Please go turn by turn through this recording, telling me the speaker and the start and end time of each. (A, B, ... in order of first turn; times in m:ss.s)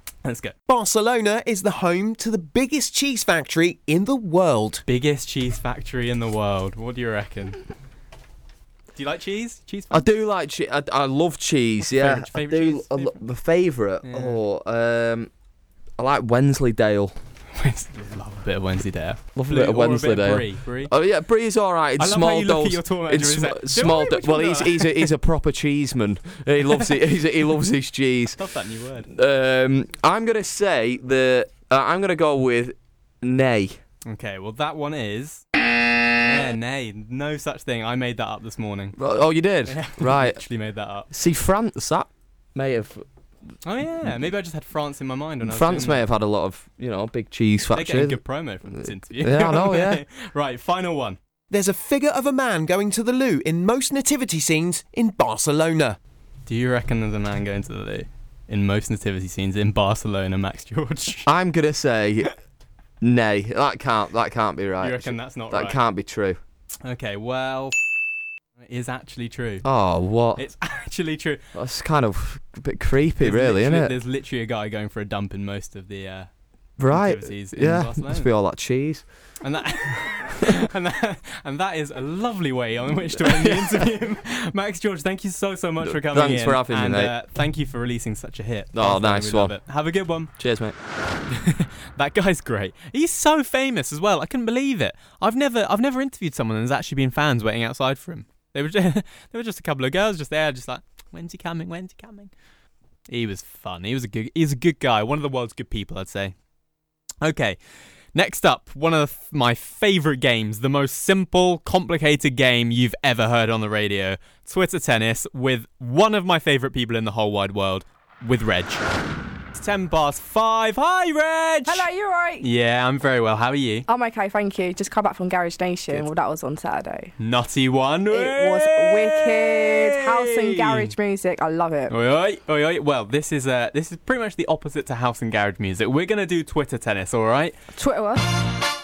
0:00.2-0:00.6 A
0:00.7-0:04.8 B
0:04.9-0:07.6 A
0:09.0-0:10.0 A
0:09.9-0:15.3 C
0:11.8-0:13.2 A
0:14.0-0:14.4 A
0:16.0-0:17.1 C
0:17.6-0:20.9 A
0:19.4-0:28.4 C
0:22.0-0:25.1 A
0:28.4-0:29.1 A
0:29.1-0:33.8 C
0:34.1-0:35.4 A
0:36.2-0:39.0 A
0:39.0-0:40.4 C
0:39.7-0:41.1 A
0:41.1-0:43.0 C
0:43.6-0:46.0 A
0:45.4-0:48.2 C
0:47.7-0:51.2 A
0:49.2-0:50.0 C
0:51.5-0:56.0 B
0:56.4-1:01.3 A
1:01.3-1:02.3 C
1:03.0-1:06.4 C
1:04.8-1:05.8 A
1:06.8-1:07.8 A
1:08.6-1:09.6 A
1:09.6-1:10.4 C
1:10.4-1:11.4 A
1:11.6-1:13.9 C
1:13.2-1:16.3 A
1:16.8-1:19.0 C
1:16.9-1:18.3 A
1:19.4-1:30.3 A
1:23.3-1:23.9 C
1:25.9-1:27.1 C
1:28.7-1:29.6 C
1:30.4-1:30.8 C
1:31.3-1:42.3 A
1:43.1-1:46.4 A
1:47.2-1:47.6 A
1:48.1-1:58.8 A
1:59.5-2:01.9 A
2:01.7-2:02.4 D
2:02.4-2:03.9 A
2:03.9-2:07.1 D
2:07.2-2:10.9 A
2:08.1-2:11.9 D
2:11.9-2:17.6 A
2:17.8-2:18.3 D